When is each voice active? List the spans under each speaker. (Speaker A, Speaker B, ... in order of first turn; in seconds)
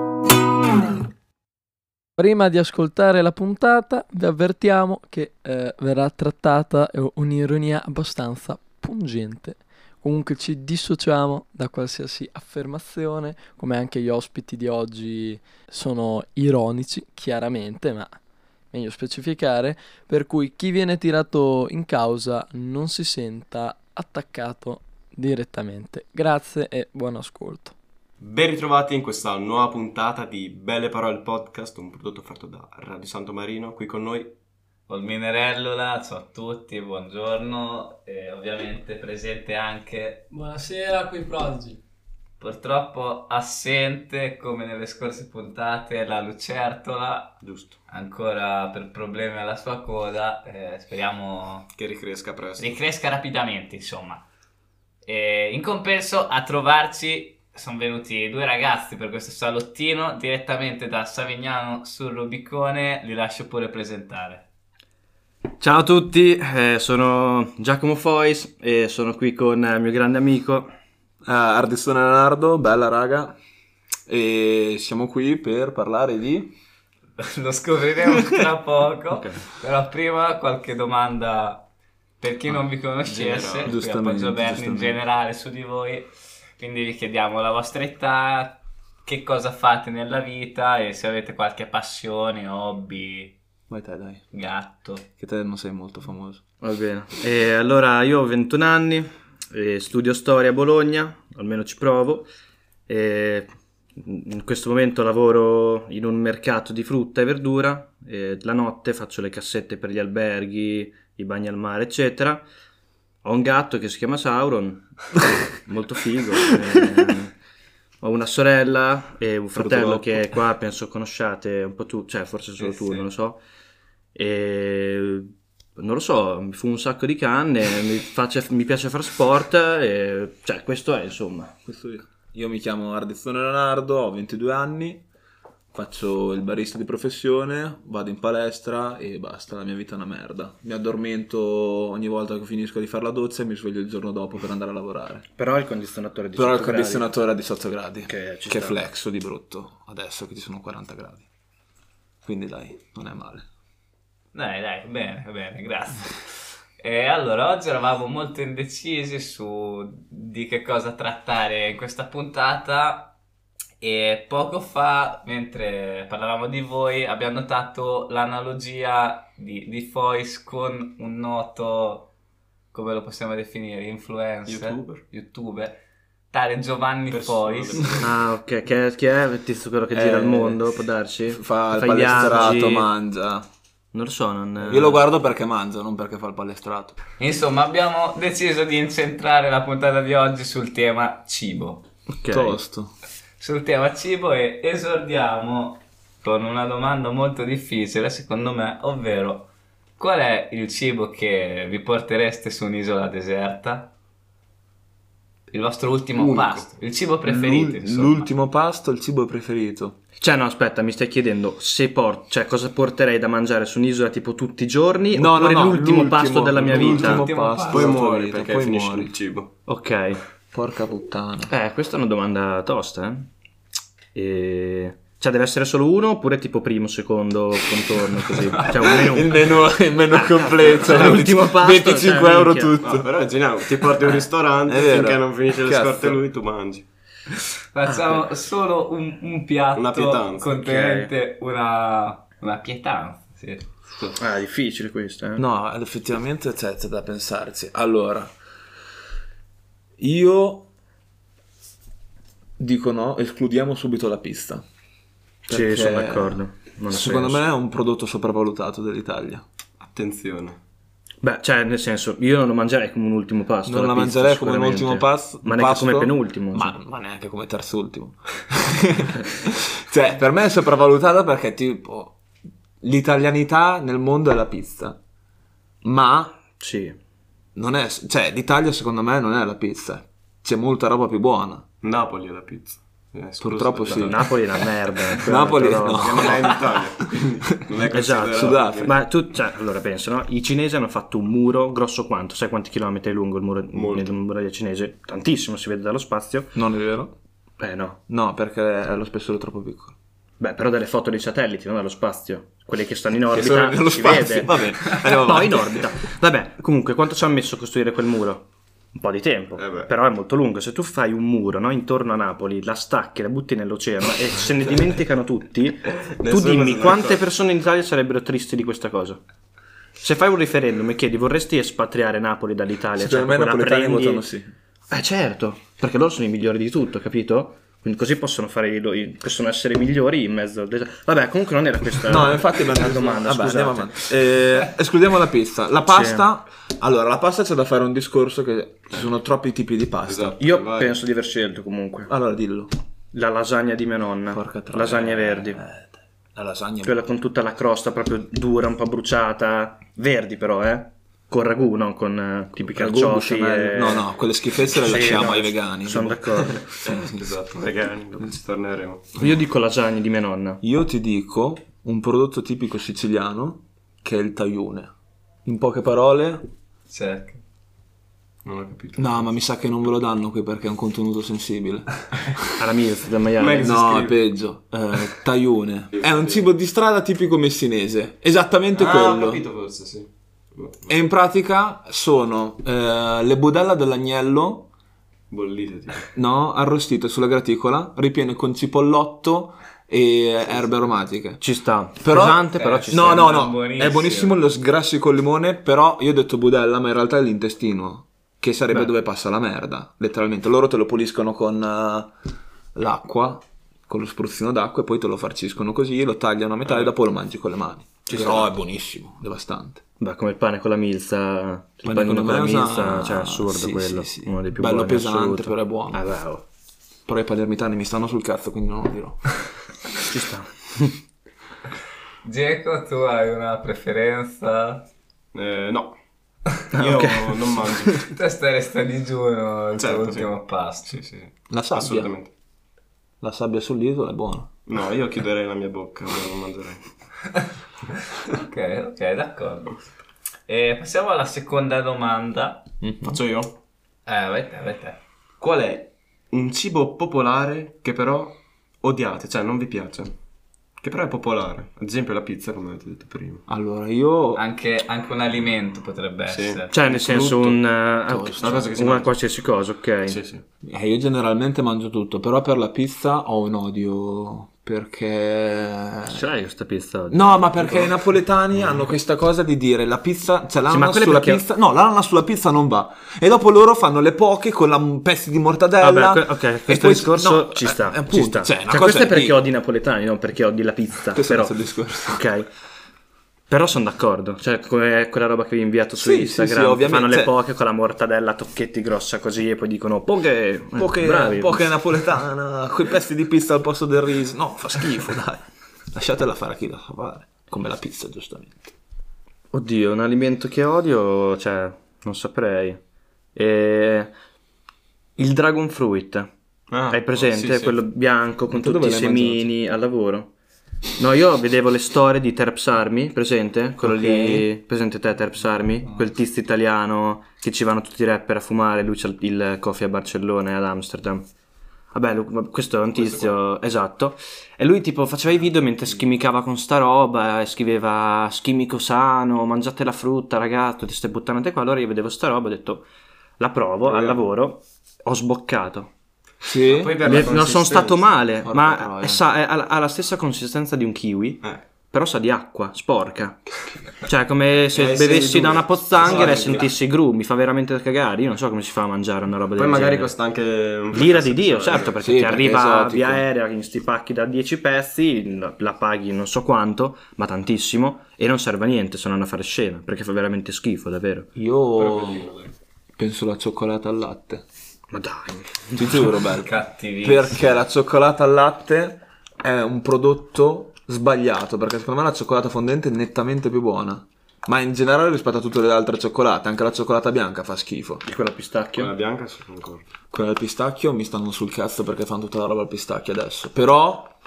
Speaker A: 2.2-18.2, 18.7-27.7, 40.3-41.8
Speaker B: 28.2-34.3, 47.4-47.7, 51.7-52.8, 83.0-83.7, 174.5-175.0, 177.1-178.2, 206.2-206.7, 216.7-217.0, 217.7-219.5, 232.8-236.8, 239.8-240.5, 259.8-260.6, 281.8-284.2, 285.9-288.9, 293.7-294.1, 309.6-309.9, 316.1-317.2, 340.1-341.0, 356.8-359.1, 368.4-369.3, 373.4-374.2, 375.9-376.4, 378.7-380.9, 385.3-386.1, 425.3-425.9, 426.7-428.1, 429.8-430.3, 430.9-432.3, 434.7-436.9, 443.0-443.5, 445.4-450.1, 450.8-453.4, 456.3-457.7, 458.4-459.1, 460.1-460.4, 506.7-507.8, 522.9-523.3, 533.9-534.2, 536.6-538.1, 544.7-546.7, 549.5-552.0, 561.7-562.5, 578.8-579.9
Speaker C: 34.9-40.2, 42.4-51.7, 52.6-54.2, 55.0-64.5, 77.2-81.7, 82.2-93.3, 94.3-95.1, 154.3-156.2, 156.8-163.1, 163.8-172.1, 172.7-175.8, 176.3-178.1, 187.2-191.8, 193.4-203.9, 205.5-208.3, 216.9-217.9, 237.7-243.7, 366.9-367.4, 392.5-394.4, 422.2-424.9, 428.1-431.0, 438.4-439.8, 440.5-442.7, 444.1-445.0, 454.4-456.8, 566.4-567.4
Speaker D: 65.6-70.7, 79.1-79.4, 96.6-102.3, 102.9-112.4, 113.2-115.0, 115.5-117.3, 118.0-123.4, 124.1-131.6, 145.4-147.1, 148.1-148.8, 178.0-182.9, 183.9-185.0, 192.1-192.6, 210.2-217.2, 219.7-220.2, 221.5-223.3, 224.1-229.5, 230.1-232.8, 237.9-238.2, 240.5-241.1, 244.2-245.4, 255.5-257.4, 261.2-266.8, 276.6-276.9, 284.0-286.3, 287.9-296.5, 297.6-298.0, 300.4-319.2, 320.0-324.2, 324.9-334.1, 335.9-336.2, 340.4-342.1, 343.1-345.6, 346.8-354.1, 354.7-356.8, 359.2-360.6, 372.6-373.9, 391.4-393.3, 408.1-408.5, 410.0-416.4, 420.1-420.9, 426.7-427.3, 456.7-460.2, 466.1-467.9, 470.7-471.4, 475.8-481.5, 482.1-482.4, 483.5-491.6, 499.5-502.8, 503.3-504.1, 505.2-506.3, 506.9-510.3, 511.0-521.2, 521.9-532.8, 533.4-535.9, 537.0-543.4, 544.0-550.1, 550.9-561.3, 564.9-566.1, 578.0-578.9
Speaker E: 71.2-73.3, 74.1-76.5, 83.6-85.0, 93.7-94.2, 95.2-96.4, 119.6-120.3, 131.7-135.0, 135.7-145.2, 146.3-151.2, 152.2-153.4, 179.9-180.6, 181.3-183.4, 184.6-187.0, 192.3-192.9, 207.2-210.0, 215.1-219.1, 220.5-221.5, 228.5-233.1, 234.6-236.2, 245.4-248.3, 250.0-250.7, 252.6-254.6, 255.5-259.4, 263.6-272.1, 272.8-275.0, 275.8-276.4, 277.6-281.6, 283.4-284.3, 285.2-286.6, 288.3-288.9, 296.5-297.1, 298.1-299.9, 303.3-305.9, 322.9-324.5, 332.0-340.4, 342.1-342.7, 344.3-347.1, 352.6-357.4, 360.6-364.9, 365.4-366.5, 369.0-372.5, 373.6-379.4, 380.9-384.7, 386.1-391.4, 392.0-402.1, 402.7-409.8, 411.8-416.0, 417.1-419.3, 431.5-432.1, 433.2-434.5, 442.8-443.2, 453.5-454.4, 458.1-458.6, 460.6-466.2, 467.1-479.4, 481.1-482.2, 485.9-487.3, 490.8-498.7, 508.5-509.5, 513.8-514.5, 536.4-537.2, 538.4-539.2, 552.0-553.2, 561.4-562.3, 563.0-564.4, 565.8-578.0, 580.1-584.1